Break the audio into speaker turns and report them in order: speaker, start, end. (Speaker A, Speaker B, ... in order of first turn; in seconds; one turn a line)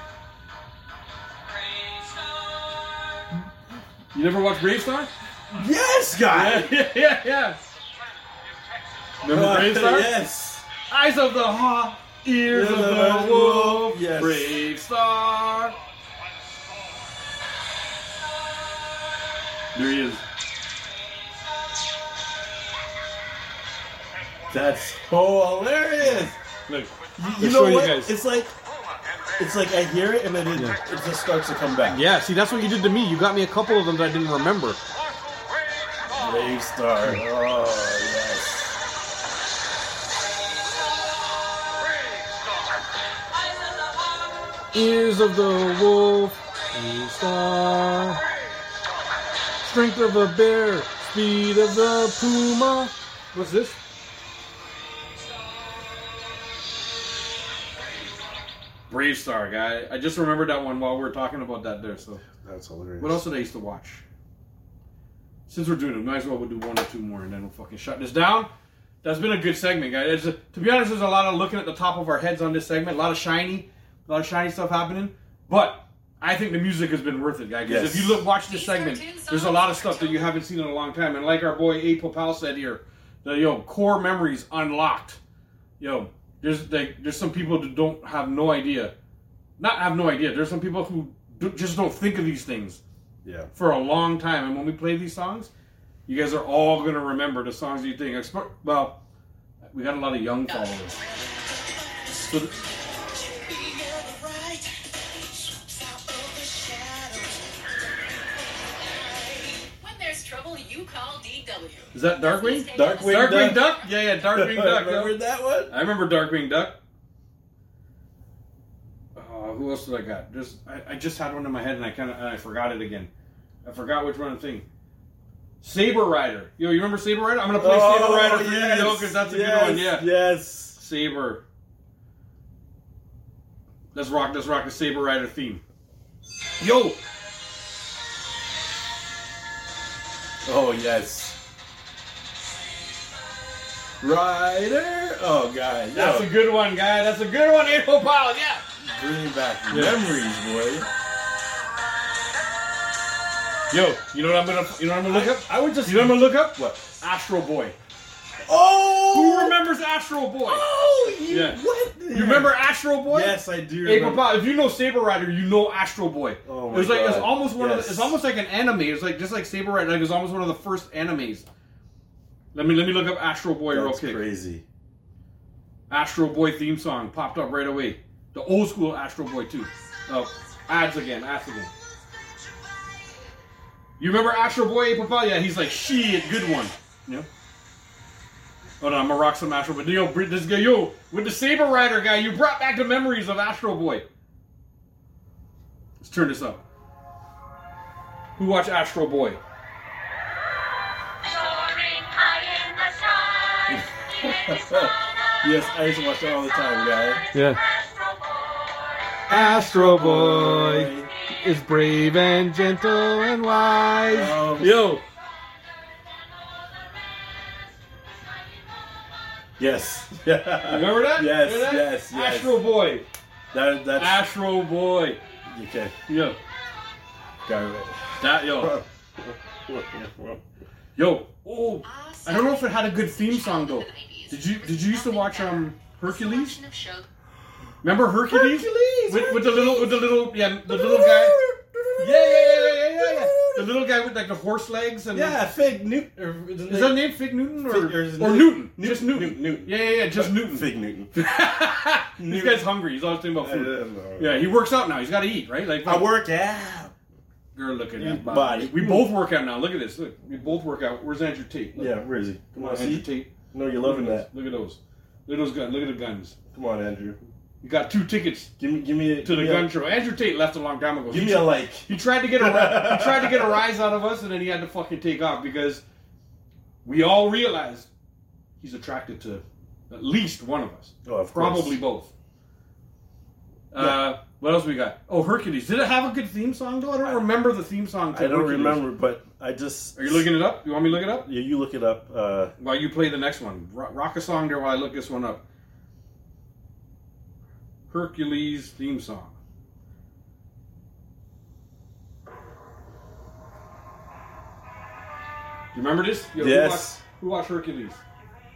Speaker A: 1.5-3.2
Speaker B: 4.1-5.1
Speaker C: 5.5-6.7
Speaker B: 6.3-7.7
Speaker B: 9.2-10.1
Speaker C: 9.2-10.7
Speaker B: 10.9-15.8
Speaker C: 12.5-14.6
Speaker B: 19.7-20.2
Speaker C: 24.5-26.4
Speaker B: 26.0-28.1
Speaker C: 27.2-28.5
Speaker C: 29.4-32.0
Speaker B: 31.9-34.8
Speaker C: 36.1-38.7
Speaker B: 44.7-48.2
Speaker B: 49.6-53.8
Speaker B: 58.9-62.2
Speaker C: 62.2-63.2
Speaker B: 63.0-64.0
Speaker B: 65.5-68.5
Speaker B: 69.0-85.2
Speaker C: 77.7-78.3
Speaker A: 78.5-80.3
Speaker B: 85.8-88.9
Speaker B: 89.6-92.8
Speaker C: 93.2-93.5
Speaker B: 93.5-95.5
Speaker B: 96.1-99.0
Speaker B: 99.7-101.0
Speaker A: 100.5-113.3
Speaker B: 111.9-115.2
Speaker C: 112.7-115.7
Speaker B: 115.7-116.8
Speaker B: 119.2-123.1
Speaker B: 123.6-124.7
Speaker B: 125.6-130.1
Speaker C: 127.6-130.8
Speaker B: 130.8-131.4
Speaker B: 133.9-135.6
Speaker B: 136.6-137.0
Speaker C: 140.4-141.4
Speaker C: 144.0-146.3
Speaker B: 145.9-148.6
Speaker C: 148.8-150.9
Speaker B: 149.7-150.0
Speaker B: 153.7-157.8
Speaker C: 155.1-156.8
Speaker C: 158.4-159.6
Speaker B: 159.1-160.7
Speaker C: 160.4-164.3
Speaker B: 161.3-171.5
Speaker C: 166.4-168.2
Speaker B: 172.5-174.2
Speaker C: 173.7-174.7
Speaker B: 175.9-181.7
Speaker B: 184.0-187.3
Speaker B: 188.8-194.1
Speaker B: 196.0-196.6
Speaker B: 198.4-199.4
Speaker A: 201.2-204.9
Speaker C: 203.7-207.2
Speaker B: 207.3-207.6
Speaker A: 207.6-209.0
Speaker C: 209.3-211.1
Speaker B: 209.3-215.0
Speaker C: 214.1-214.8
Speaker C: 219.6-222.6
Speaker B: 220.6-223.1
Speaker C: 223.5-224.2
Speaker B: 224.0-225.2
Speaker C: 225.5-225.9
Speaker B: 226.1-226.4
Speaker C: 227.4-230.4
Speaker B: 228.2-228.8
Speaker B: 231.0-236.6
Speaker A: 231.9-237.1
Speaker B: 237.8-241.4
Speaker C: 238.3-240.2
Speaker C: 240.7-243.7
Speaker B: 242.0-245.5
Speaker C: 245.1-247.1
Speaker B: 246.7-256.1
Speaker C: 247.7-251.1
Speaker C: 252.2-252.7
Speaker C: 253.4-254.5
Speaker C: 255.8-256.9
Speaker B: 257.5-261.9
Speaker C: 258.0-259.1
Speaker C: 261.8-264.3
Speaker B: 262.6-266.4
Speaker C: 266.5-267.2
Speaker B: 267.6-268.5
Speaker C: 268.6-269.7
Speaker B: 269.2-275.8
Speaker C: 271.1-273.6
Speaker B: 276.9-277.9
Speaker B: 278.6-282.1
Speaker C: 281.1-281.8
Speaker B: 283.7-288.9
Speaker C: 283.8-284.1
Speaker C: 288.1-290.4
Speaker B: 290.0-291.3
Speaker C: 290.9-292.6
Speaker B: 292.6-295.4
Speaker B: 297.9-299.4
Speaker B: 305.7-308.0
Speaker C: 306.4-307.0